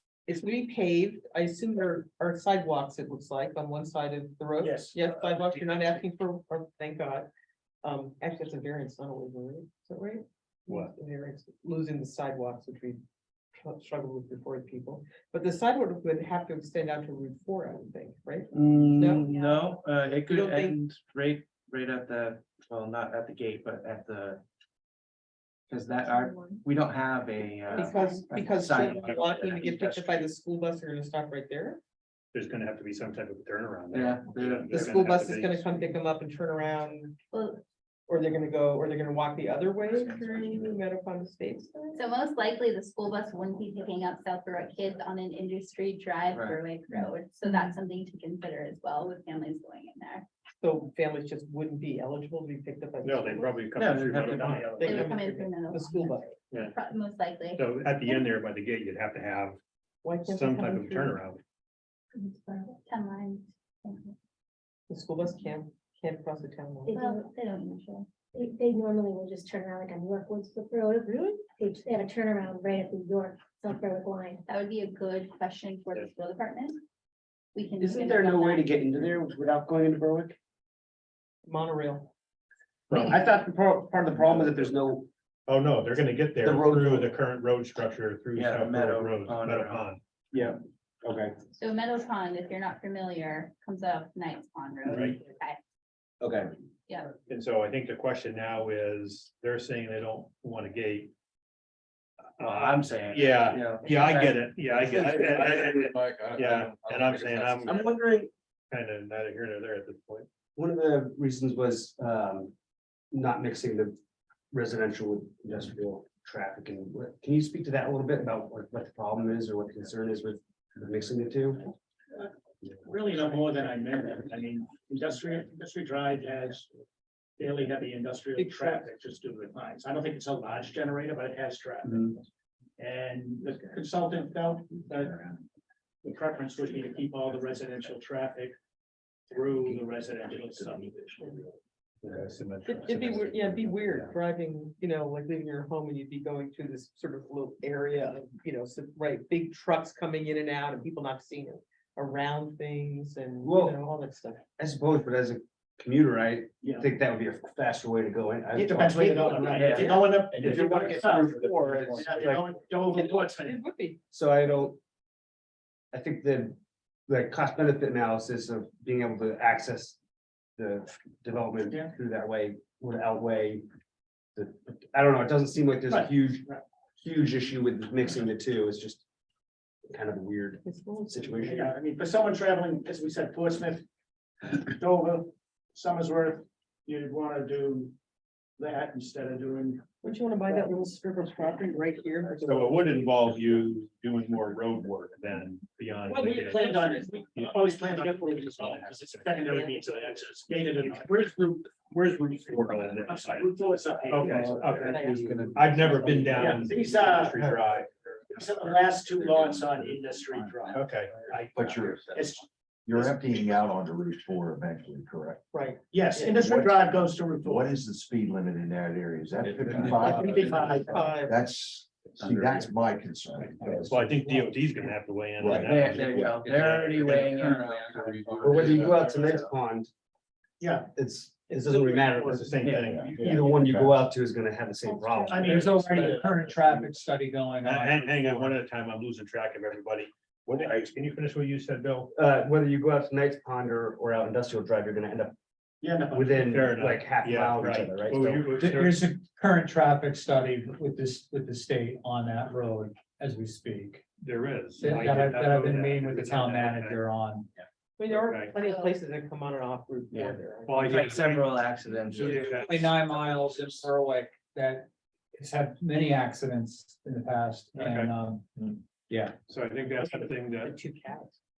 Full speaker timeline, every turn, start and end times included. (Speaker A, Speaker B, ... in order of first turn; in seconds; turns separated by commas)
Speaker A: 0.3-7.3, Speaker B: 4.6-5.4, Speaker A: 7.8-13.0, Speaker A: 13.6-19.3, Speaker C: 18.5-24.4, Speaker D: 19.2-19.7, Speaker A: 20.2-20.8, Speaker C: 25.7-30.3, Speaker E: 26.0-26.6, Speaker A: 27.7-31.8, Speaker D: 27.8-28.2, Speaker F: 32.3-35.7, Speaker C: 33.9-34.8, Speaker A: 34.7-37.2, Speaker D: 37.3-37.6, Speaker A: 38.1-42.0, Speaker D: 41.9-50.3, Speaker C: 46.3-47.1, Speaker A: 50.6-53.7, Speaker F: 53.0-55.1, Speaker C: 53.8-54.8, Speaker A: 54.7-56.3, Speaker D: 54.8-58.3, Speaker F: 57.5-59.6, Speaker A: 60.0-61.2, Speaker F: 60.2-61.4, Speaker D: 62.1-64.2, Speaker A: 64.9-67.0, Speaker E: 66.9-67.3, Speaker D: 67.0-68.1, Speaker E: 68.3-74.4, Speaker D: 74.5-76.8, Speaker D: 77.5-78.7, Speaker G: 77.8-80.4, Speaker A: 81.5-82.1, Speaker F: 82.9-83.2, Speaker G: 82.9-85.1, Speaker F: 84.2-84.5, Speaker F: 85.5-90.0, Speaker G: 86.4-87.1, Speaker C: 88.4-90.0, Speaker G: 90.3-91.3, Speaker D: 91.5-95.6, Speaker F: 94.9-95.2, Speaker G: 96.2-96.5, Speaker F: 97.3-101.1, Speaker F: 102.4-108.0, Speaker C: 102.4-105.6, Speaker H: 104.9-107.5, Speaker C: 107.3-108.3, Speaker F: 108.7-110.3, Speaker G: 110.6-112.5, Speaker G: 113.1-114.0, Speaker G: 114.5-121.7, Speaker B: 122.1-126.7, Speaker B: 127.4-132.2, Speaker A: 128.4-128.8, Speaker B: 132.8-135.3, Speaker B: 136.0-138.6, Speaker B: 139.3-141.5, Speaker F: 142.0-144.1, Speaker A: 142.7-154.4, Speaker G: 153.4-153.8, Speaker G: 154.6-162.4, Speaker B: 156.6-156.9, Speaker B: 158.5-163.6, Speaker C: 159.6-160.0, Speaker F: 161.2-162.2, Speaker A: 162.9-164.0, Speaker G: 164.1-164.8, Speaker G: 165.9-166.6, Speaker G: 167.1-170.0, Speaker G: 170.6-173.7, Speaker G: 174.4-176.4, Speaker B: 175.9-176.6, Speaker G: 177.0-179.0, Speaker G: 179.9-181.6, Speaker A: 180.6-181.7, Speaker B: 181.5-183.8, Speaker B: 184.4-188.0, Speaker B: 188.6-189.8, Speaker A: 190.0-193.3, Speaker F: 192.4-196.8, Speaker B: 196.1-201.3, Speaker F: 197.3-197.8, Speaker F: 198.6-199.2, Speaker F: 200.8-203.5, Speaker B: 202.6-205.0, Speaker F: 204.1-207.9, Speaker A: 204.3-206.7, Speaker B: 206.4-207.5, Speaker B: 208.3-213.5, Speaker F: 210.7-211.7, Speaker H: 211.6-215.4, Speaker A: 215.5-216.4, Speaker B: 215.9-217.8, Speaker H: 216.4-216.8, Speaker H: 217.4-224.0, Speaker A: 219.8-221.4, Speaker B: 220.3-221.1, Speaker F: 223.4-226.4, Speaker H: 225.4-229.4, Speaker C: 225.5-228.8, Speaker G: 228.4-229.9, Speaker B: 230.6-230.9, Speaker G: 230.8-235.8, Speaker B: 231.7-232.3, Speaker F: 232.1-233.4, Speaker H: 232.9-234.0, Speaker B: 235.2-236.4, Speaker I: 235.4-238.6, Speaker F: 237.6-242.1, Speaker G: 242.1-245.3, Speaker B: 245.8-246.5, Speaker G: 246.1-248.5, Speaker F: 246.4-249.0, Speaker I: 248.6-254.1, Speaker F: 254.2-257.0, Speaker I: 254.8-257.5, Speaker A: 258.0-261.1, Speaker F: 258.1-258.6, Speaker D: 258.6-258.9, Speaker C: 260.1-262.6, Speaker F: 260.7-262.8, Speaker I: 262.2-269.4, Speaker F: 267.8-268.1, Speaker F: 269.5-270.7, Speaker A: 270.0-271.4